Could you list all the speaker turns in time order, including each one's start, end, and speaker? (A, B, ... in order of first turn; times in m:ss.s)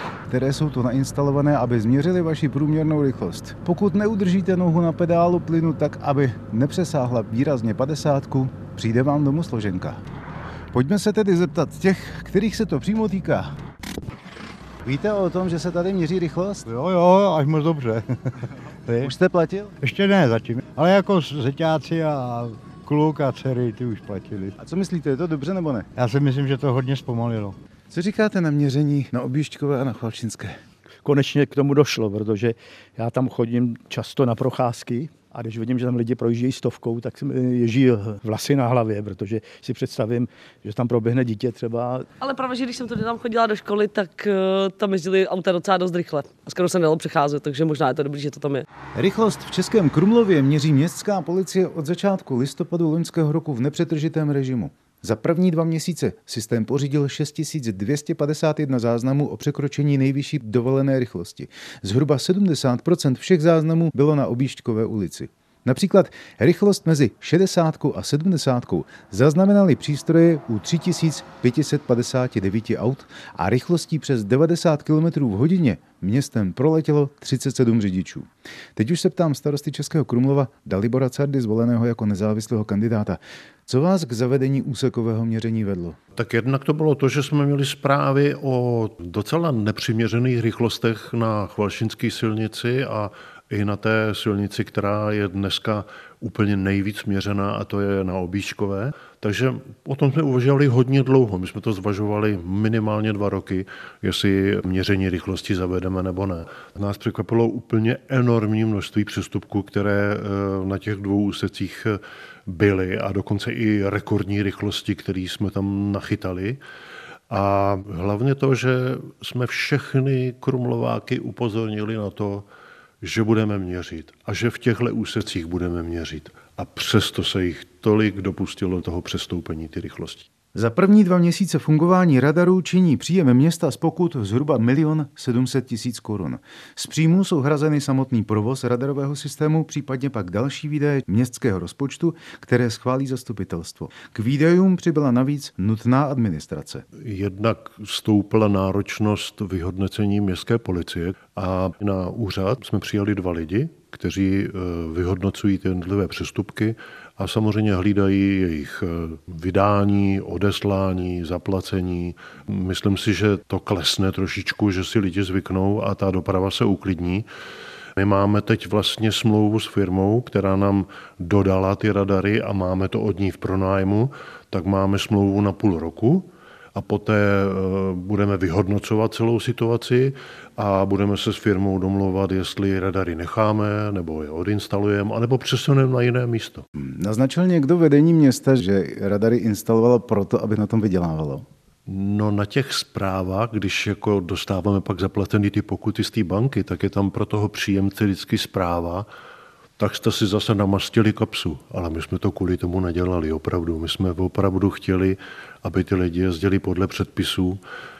0:00.3-0:10.0 A
0:10.7-0:13.5 A
0:14.8-0:16.7 A
0:16.7-0:19.1 B
0:19.0-0:19.8 A
0:19.8-0:24.5 B
0:24.6-0:25.9 A
0:26.0-0:27.6 B
0:27.9-0:30.6 A
0:31.0-0:42.1 C
0:42.2-0:48.6 D
0:48.9-1:26.0 A
1:26.2-1:56.6 E
1:57.3-2:02.4 E
2:03.0-2:10.3 E
2:10.5-2:26.8 A
2:27.0-2:47.2 E
2:48.0-3:06.6 E
3:06.8-3:11.4 A
3:11.9-3:19.0 E
3:19.8-3:27.6 E